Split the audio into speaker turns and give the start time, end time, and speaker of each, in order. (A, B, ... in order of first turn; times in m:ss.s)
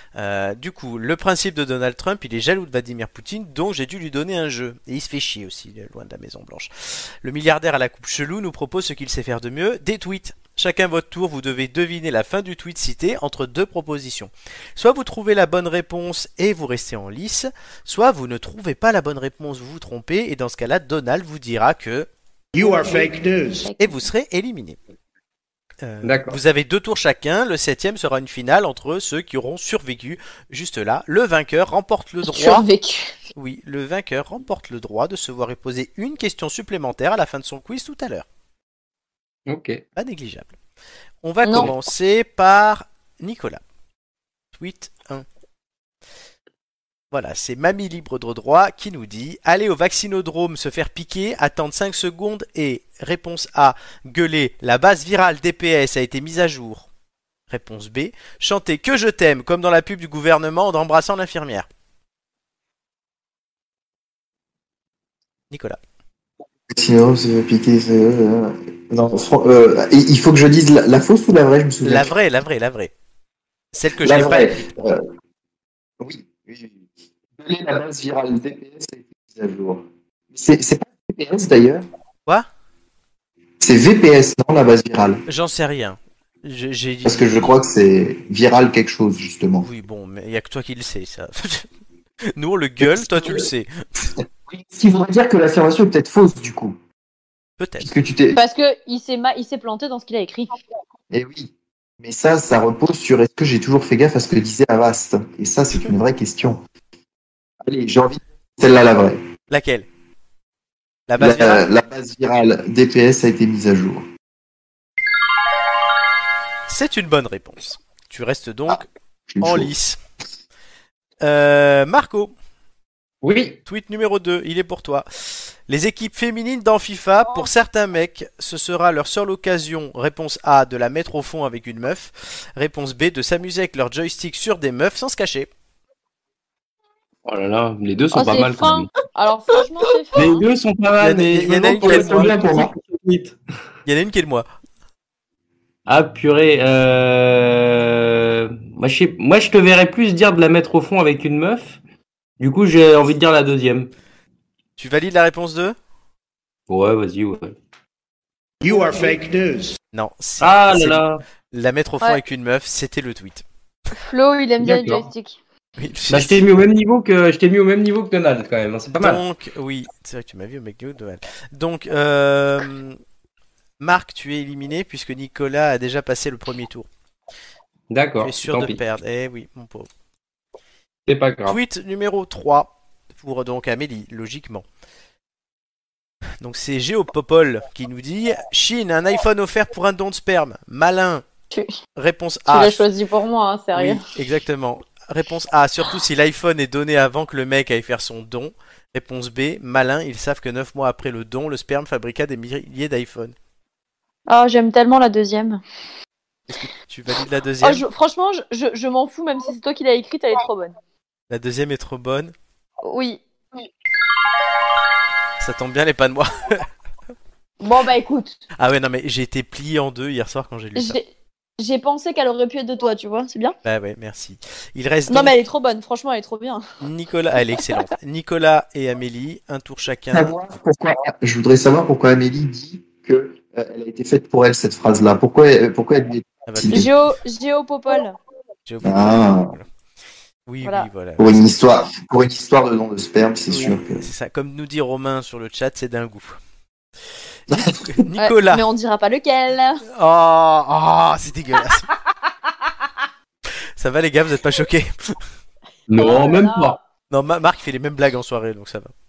0:00.2-0:22.1 A
0:22.7-0:23.5 B
0:23.6-0:24.0 C
0:23.8-0:24.8 A
0:25.8-0:32.6 A
0:26.0-0:26.4 D
0:32.2-0:33.2 C
0:33.4-0:38.2 A
0:39.5-0:39.8 D
0:40.0-0:40.5 A
0:41.2-0:43.6 A
0:41.4-0:41.7 C
0:44.6-0:45.2 A
0:47.1-0:56.9 A
0:57.5-1:01.7 A
1:05.5-1:05.8 A
1:06.7-1:12.1 E
1:11.8-1:12.9 A
1:13.7-1:14.7 A
1:14.0-1:15.0 E
1:16.0-1:16.8 E
1:17.4-1:21.8 E
1:23.6-1:25.2 E
1:25.3-1:27.5 A
1:27.0-1:29.7 E
1:29.6-1:31.7 A
1:32.3-1:33.7 A
1:32.8-1:33.4 E
1:34.5-1:36.8 E
1:37.6-1:37.9 A
1:37.8-1:38.4 E
1:38.3-1:40.5 C
1:41.1-1:46.6 E
1:47.6-1:49.2 E
1:49.5-1:49.9 A
1:51.1-1:51.6 A
1:51.2-1:54.0 E
1:56.7-1:58.9 A
1:59.3-1:59.7 E
1:59.4-2:00.0 A
2:01.2-2:02.3 A
2:03.2-2:03.6 D
2:03.6-2:15.5 A
2:17.2-2:18.9 D
2:18.1-2:20.4 C
2:20.1-2:23.4 D
2:21.0-2:22.4 A
2:21.8-2:22.7 E
2:23.8-2:24.4 A
2:25.8-2:31.8 D
2:32.4-2:33.9 D
2:34.8-2:35.8 A
2:36.7-2:37.6 D
2:38.6-2:39.8 B
2:39.9-2:43.4 A
2:40.4-2:41.2 D
2:43.9-2:45.4 C
2:44.6-2:45.1 D
2:45.8-2:46.4 A
2:46.1-2:49.2 D
2:48.9-2:53.0 A
2:53.8-2:56.9 A
2:57.9-2:58.8 D
2:58.2-2:59.9 A
3:01.1-3:01.6 D
3:01.5-3:04.6 A
3:06.4-3:11.2 A
3:11.5-3:11.8 C
3:12.0-3:12.9 A
3:12.5-3:14.0 C
3:13.8-3:23.3 A
3:24.3-3:25.6 C
3:26.5-3:27.8 A
3:27.6-3:30.7 C
3:31.3-3:32.3 A
3:32.8-3:33.2 C
3:35.4-3:36.7 A
3:37.6-3:38.4 C
3:38.6-3:41.0 A
3:40.7-3:41.1 C
3:41.6-3:43.5 C
3:43.6-3:45.3 A
3:45.1-3:46.6 C
3:46.8-3:50.3 A
3:50.1-3:56.9 E
3:56.5-3:56.9 A
3:56.7-3:58.2 C
3:58.6-3:59.7 A
3:58.8-3:59.5 E
4:00.4-4:01.4 A
4:01.2-4:04.1 E
4:03.5-4:06.4 A
4:07.5-4:08.0 E
4:07.5-4:08.6 A
4:08.2-4:09.8 C
4:09.9-4:11.9 A
4:13.8-4:15.2 A
4:15.9-4:16.8 D
4:16.0-4:16.8 C
4:17.1-4:18.9 A